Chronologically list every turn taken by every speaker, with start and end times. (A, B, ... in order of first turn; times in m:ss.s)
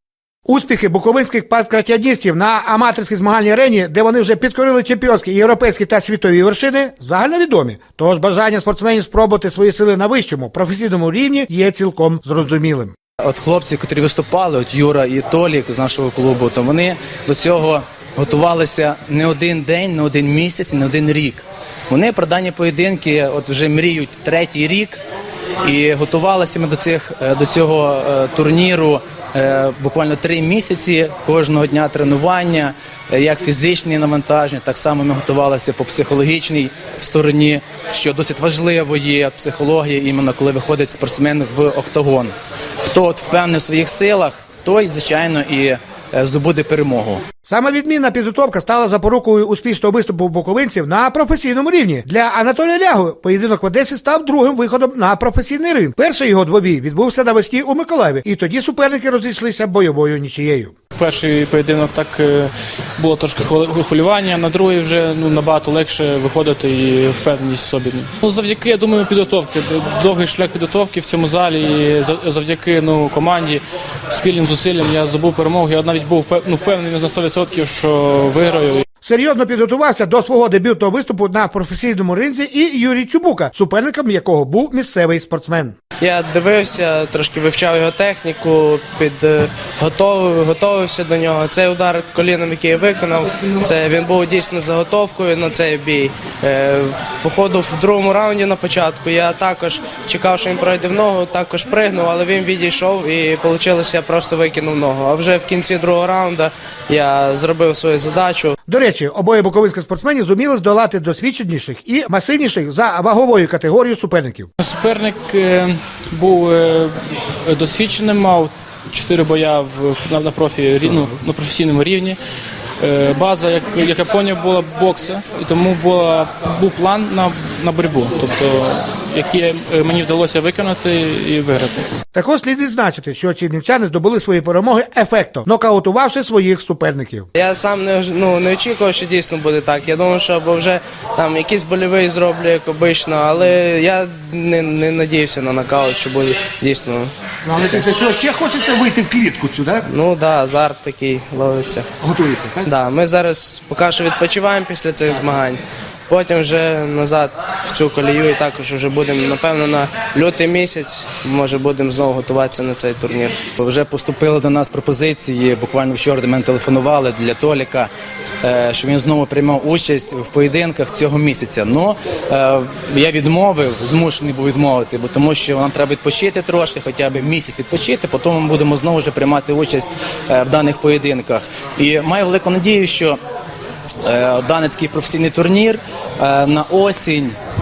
0:00.5-0:12.9 A
0:13.2-0:25.0 B
0:25.6-0:42.3 B
0:42.9-0:47.2 B
0:47.4-1:00.7 A
1:01.0-1:18.8 C
1:19.0-1:25.8 A
1:26.0-1:48.6 D
1:48.7-1:54.5 A
1:54.6-1:56.9 C
1:57.5-2:02.2 C
2:02.8-2:11.9 C
2:12.1-2:17.3 A
2:17.4-2:27.1 D
2:27.4-2:29.9 A
2:29.9-2:31.9 D
2:32.0-2:32.7 A
2:32.7-2:43.4 D
2:43.6-2:47.9 B
2:48.4-3:03.2 B
3:04.0-3:07.4 B